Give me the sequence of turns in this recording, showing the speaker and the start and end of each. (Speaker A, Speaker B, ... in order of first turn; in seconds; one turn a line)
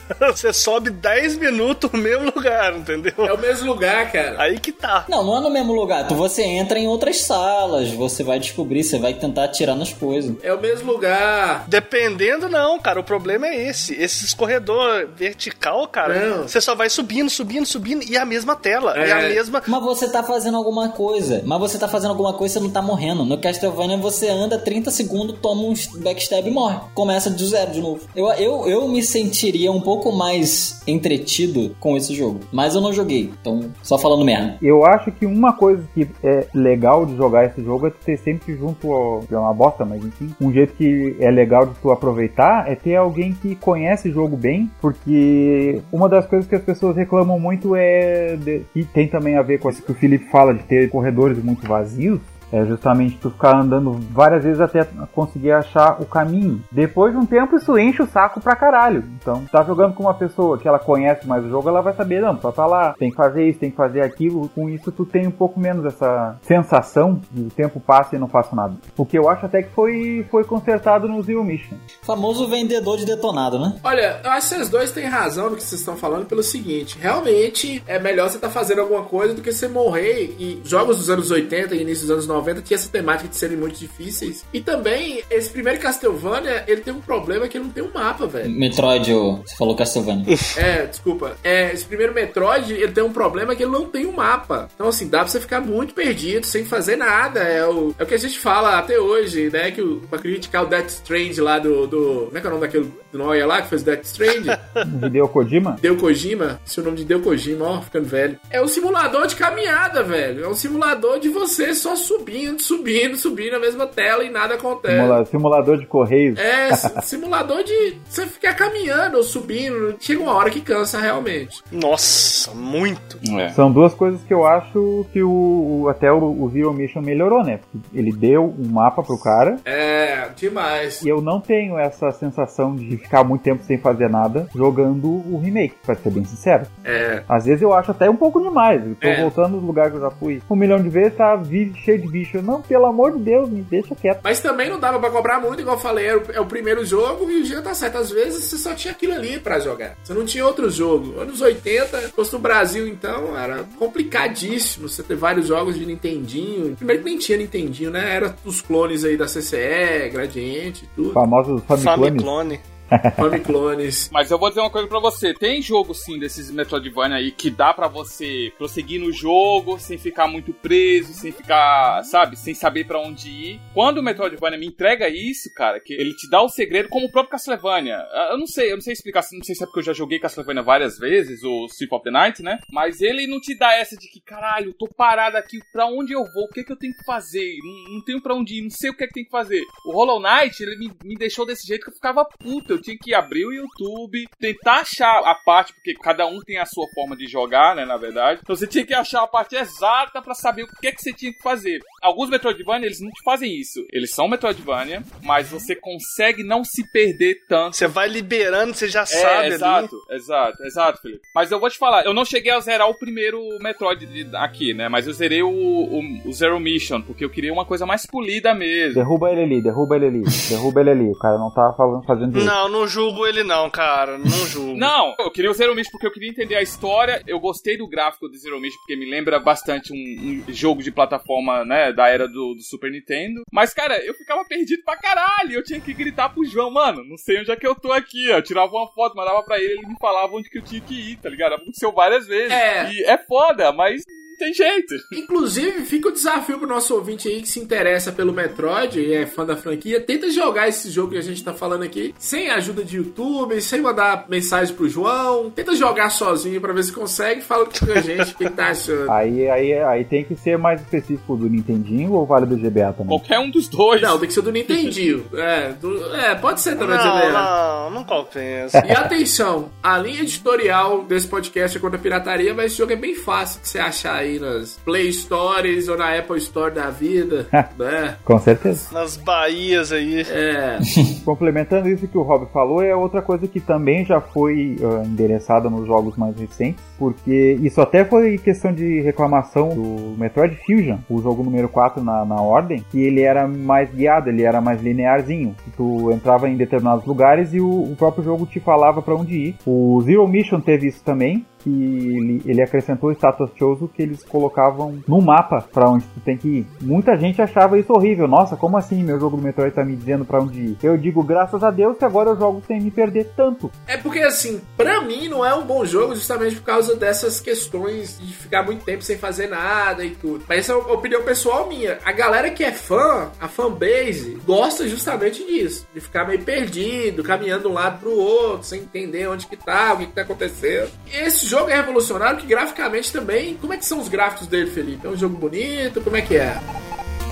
Speaker A: 0.2-3.4
Speaker B: 3.2-4.4
Speaker A: 4.4-5.1
Speaker C: 5.1-10.4
Speaker B: 10.4-11.7
Speaker A: 11.7-19.7
Speaker B: 16.1-16.5
Speaker B: 18.9-19.4
Speaker C: 19.7-34.6
Speaker D: 34.6-71.8
Speaker C: 72.0-73.8
Speaker B: 73.8-88.5
Speaker C: 88.4-90.3
Speaker B: 90.5-104.6
Speaker D: 104.8-105.8
Speaker B: 105.8-115.2
Speaker D: 114.9-117.0
Speaker B: 116.3-121.6
Speaker A: 121.7-123.2
Speaker E: 123.2-123.6
Speaker D: 123.5-129.6
Speaker B: 129.6-131.0
Speaker D: 131.0-136.7
Speaker B: 136.8-137.2
Speaker D: 137.3-144.2
Speaker B: 139.0-139.3
Speaker B: 144.2-161.2
Speaker D: 161.1-162.3
Speaker A: 161.8-162.6
Speaker D: 162.9-163.4
Speaker B: 163.2-164.1
Speaker E: 164.1-207.9
Speaker A: 207.7-209.9
Speaker E: 209.1-219.0
Speaker D: 218.9-222.5
Speaker A: 222.3-224.9
Speaker E: 224.8-245.1
Speaker B: 242.5-242.9
Speaker B: 245.1-259.1
Speaker D: 259.1-263.2
Speaker E: 263.1-264.2
Speaker B: 264.0-267.5
Speaker A: 266.8-268.8
Speaker B: 268.8-278.2
Speaker D: 278.2-278.9
Speaker A: 278.9-280.3
Speaker B: 280.2-280.9
Speaker D: 281.2-313.7
Speaker B: 313.9-336.6